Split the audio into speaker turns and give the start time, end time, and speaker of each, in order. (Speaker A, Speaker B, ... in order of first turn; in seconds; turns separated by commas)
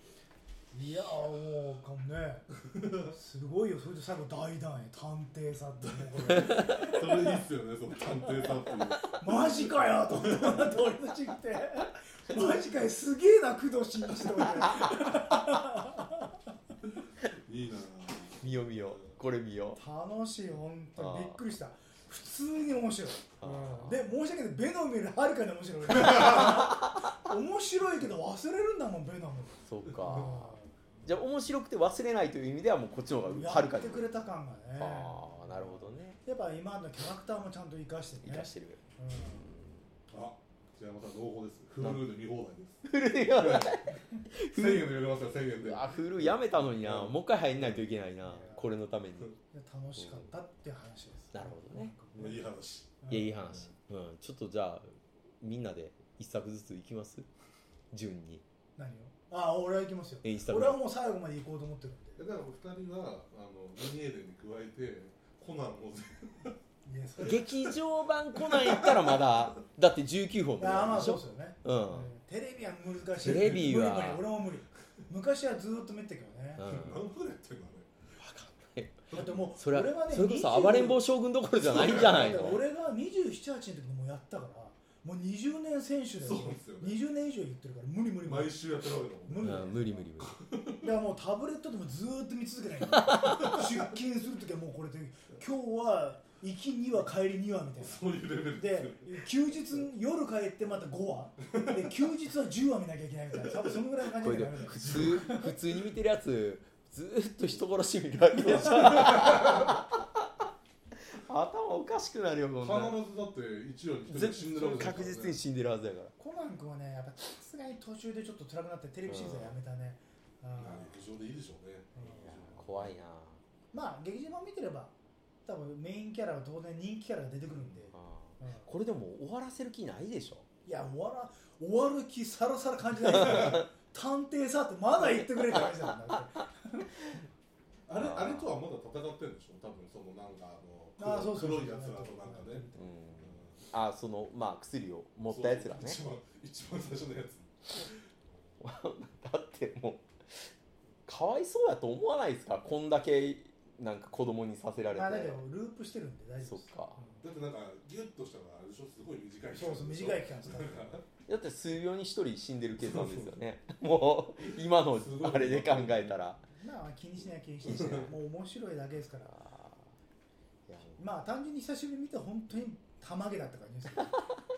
Speaker A: 0.7-2.5, Speaker B: 2.7-3.1, Speaker A: 3.0-7.3, Speaker B: 5.8-9.5, Speaker A: 9.0-16.3, Speaker B: 10.1-10.6, Speaker B: 17.4-19.0, Speaker C: 18.4-19.8, Speaker A: 19.8-30.7, Speaker C: 21.0-21.4, Speaker C: 23.4-24.1, Speaker C: 26.0-27.1, Speaker C: 29.6-34.1, Speaker A: 33.2-39.5, Speaker C: 34.8-36.2, Speaker C: 38.2-39.8, Speaker B: 40.1-43.9, Speaker C: 42.8-44.9, Speaker B: 44.5-47.9, Speaker C: 45.6-49.3, Speaker A: 48.2-48.7, Speaker A: 49.5-52.5, Speaker C: 51.3-51.9, Speaker B: 52.1-53.0, Speaker A: 53.0-53.5, Speaker C: 53.1-57.3, Speaker C: 57.9-58.4, Speaker A: 58.8-62.2, Speaker C: 60.2-60.8, Speaker B: 62.2-66.6, Speaker A: 66.8-67.6, Speaker C: 67.2-72.1, Speaker B: 68.3-69.4, Speaker A: 70.6-76.7, Speaker C: 73.2-74.2, Speaker B: 73.3-73.6, Speaker C: 76.6-77.0, Speaker B: 76.6-77.9, Speaker C: 78.2-82.6, Speaker B: 79.1-79.5, Speaker A: 79.1-81.0, Speaker B: 81.6-82.4, Speaker A: 81.7-90.0, Speaker B: 86.2-87.0, Speaker B: 88.2-90.9, Speaker C: 89.4-90.3, Speaker A: 90.8-105.5, Speaker C: 92.9-93.6, Speaker B: 97.8-99.3, Speaker B: 101.5-101.8, Speaker C: 104.2-110.0, Speaker B: 104.8-105.4, Speaker B: 109.0-109.6, Speaker C: 111.1-113.0, Speaker B: 112.6-115.4, Speaker C: 114.1-116.1, Speaker A: 114.6-115.1, Speaker A: 116.2-121.0, Speaker C: 119.1-119.5, Speaker B: 120.5-122.9, Speaker A: 121.9-122.4, Speaker C: 122.2-123.4, Speaker A: 123.7-124.9, Speaker A: 125.5-128.7, Speaker C: 127.9-130.4, Speaker A: 130.7-136.9, Speaker C: 133.2-133.6, Speaker C: 135.1-135.9, Speaker B: 137.9-142.7, Speaker C: 137.9-138.5, Speaker A: 141.0-142.9, Speaker C: 142.8-146.0, Speaker B: 143.2-143.6, Speaker B: 145.3-147.9, Speaker C: 148.6-150.5, Speaker C: 151.1-155.4, Speaker A: 154.9-157.2, Speaker C: 156.4-157.0, Speaker B: 157.2-161.0, Speaker A: 159.5-161.0, Speaker C: 161.3-166.4, Speaker B: 162.8-163.3, Speaker B: 164.4-166.2, Speaker A: 166.6-169.4, Speaker B: 167.7-168.0, Speaker C: 167.7-168.1, Speaker C: 169.3-169.8, Speaker C: 170.7-171.0, Speaker A: 171.0-174.2